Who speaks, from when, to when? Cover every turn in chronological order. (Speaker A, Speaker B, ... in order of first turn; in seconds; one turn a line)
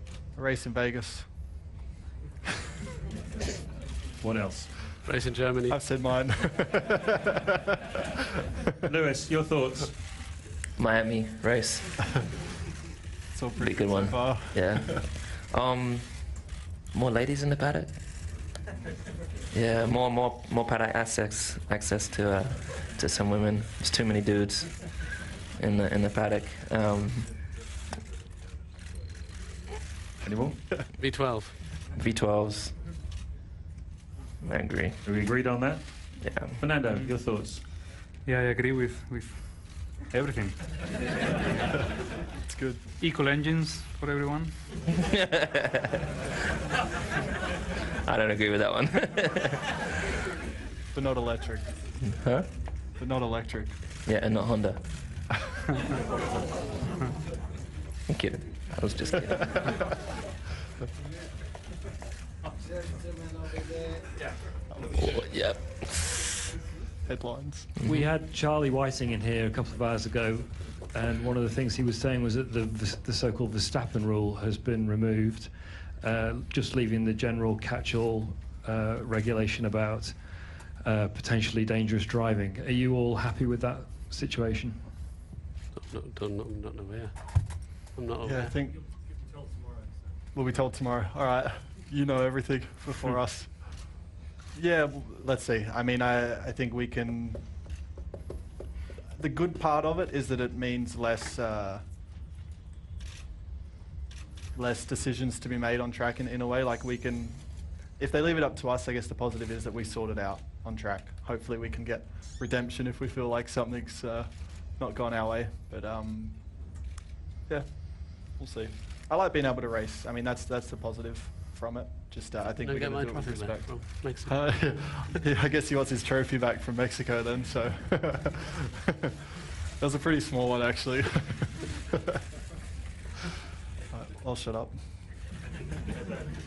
Speaker A: 0.3-1.4
Speaker B: 4.2-4.8
Speaker C: 5.0-5.9
Speaker A: 5.7-7.3
Speaker B: 8.9-10.2
Speaker D: 10.8-12.3
Speaker A: 13.3-15.1
Speaker D: 13.6-18.2
Speaker D: 19.5-27.5
Speaker B: 30.2-30.8
Speaker C: 31.0-31.6
Speaker D: 31.9-32.8
Speaker D: 34.4-35.0
Speaker B: 35.0-37.7
Speaker D: 36.1-36.6
Speaker E: 36.8-37.2
Speaker E: 38.2-40.8
Speaker A: 42.5-42.8
Speaker E: 43.0-44.8
Speaker D: 45.3-45.7
Speaker D: 48.0-49.8
Speaker A: 50.9-51.7
Speaker D: 52.1-52.5
Speaker A: 52.9-53.8
Speaker D: 54.0-55.1
Speaker D: 58.1-59.6
Speaker A: 64.7-65.1
Speaker D: 65.0-66.1
Speaker A: 67.0-67.7
Speaker D: 67.8-68.1
Speaker F: 67.8-84.9
Speaker C: 85.7-88.5
Speaker A: 88.2-88.8
Speaker A: 90.3-94.0
Speaker A: 94.5-97.5
Speaker A: 99.1-101.8
Speaker A: 104.5-116.9
Speaker A: 117.5-128.9
Speaker C: 122.6-125.0
Speaker A: 129.8-131.8
Speaker A: 133.9-135.1